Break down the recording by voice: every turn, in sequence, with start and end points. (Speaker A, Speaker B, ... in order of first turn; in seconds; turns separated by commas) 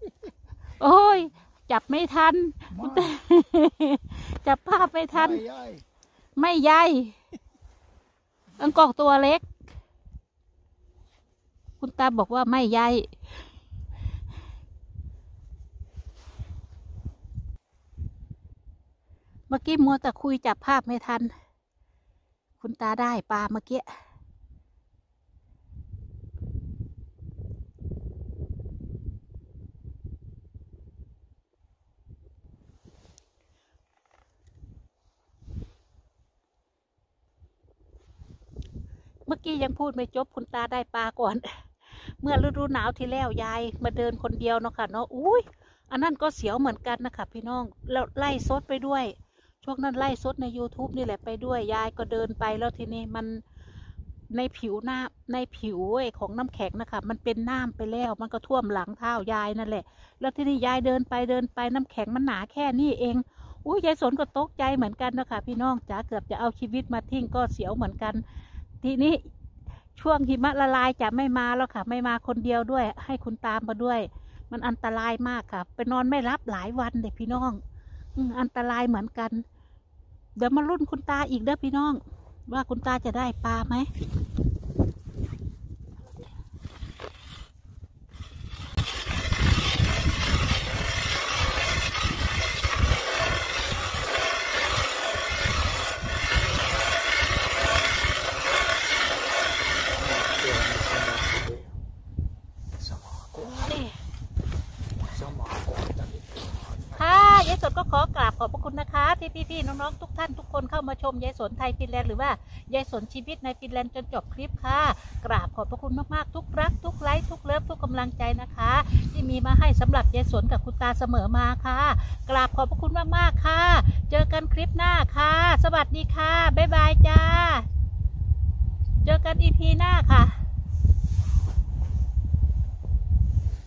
Speaker A: 0.8-5.5, Speaker B: 5.3-5.8, Speaker A: 6.4-7.2, Speaker A: 8.6-9.4, Speaker A: 11.8-13.1, Speaker A: 19.5-21.3, Speaker A: 22.6-23.9, Speaker A: 39.3-53.4, Speaker A: 54.3-68.2, Speaker A: 68.8-69.3, Speaker A: 70.0-77.6, Speaker A: 78.2-79.4, Speaker A: 80.3-83.9, Speaker B: 100.0-101.7, Speaker B: 102.8-103.5, Speaker A: 103.4-104.0, Speaker B: 105.1-106.3, Speaker A: 106.9-127.7, Speaker A: 129.0-130.4